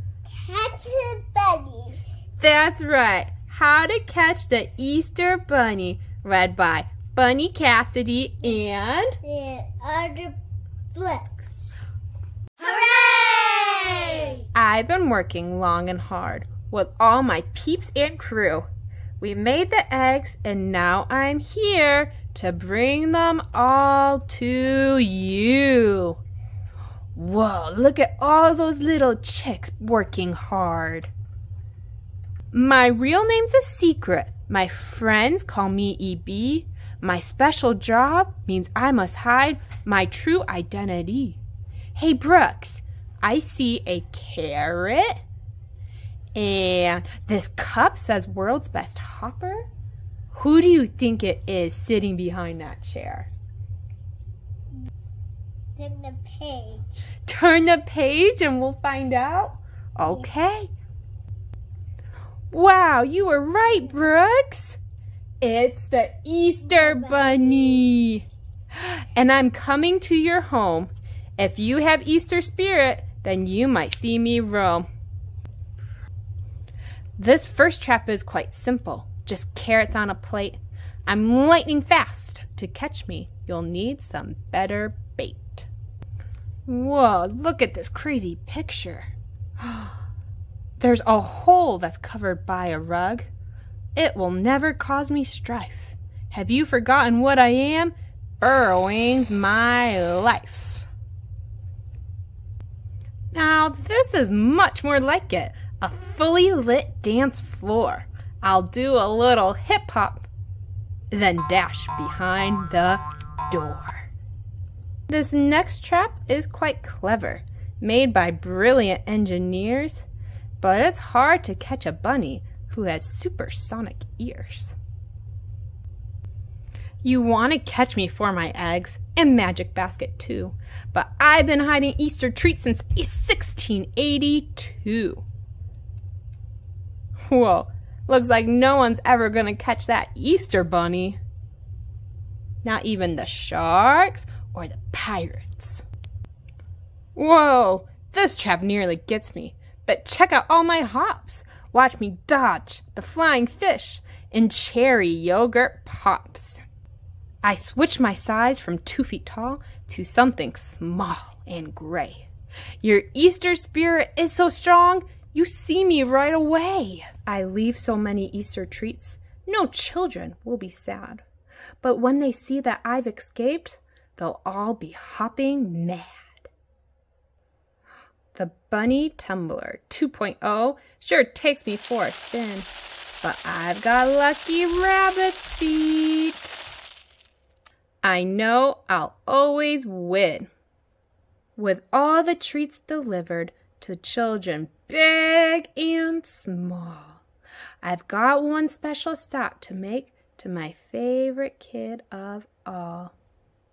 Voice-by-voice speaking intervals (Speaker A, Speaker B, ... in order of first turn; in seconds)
Speaker A: 0.3-2.0, 9.2-10.4, 10.9-11.7, 12.6-14.4, 55.8-57.0, 66.7-67.8
Speaker B: 2.4-9.2, 14.5-18.7, 19.2-26.2, 27.1-31.1, 32.5-41.4, 41.9-45.2, 46.3-49.7, 50.3-53.3, 57.2-60.7, 62.5-64.8, 65.4-68.2, 68.8-74.9, 77.2-85.7, 86.7-89.1, 89.6-89.9, 90.8-93.3, 93.9-100.9, 103.3-110.3, 111.1-114.1, 115.1-120.0, 120.6-124.7, 127.0-135.2, 137.3-141.2, 142.6-145.8, 147.2-156.6, 157.4-162.2, 162.8-171.2, 171.8-176.5, 178.3-182.7, 183.2-186.5, 188.0-190.5, 191.6-197.2, 197.8-203.1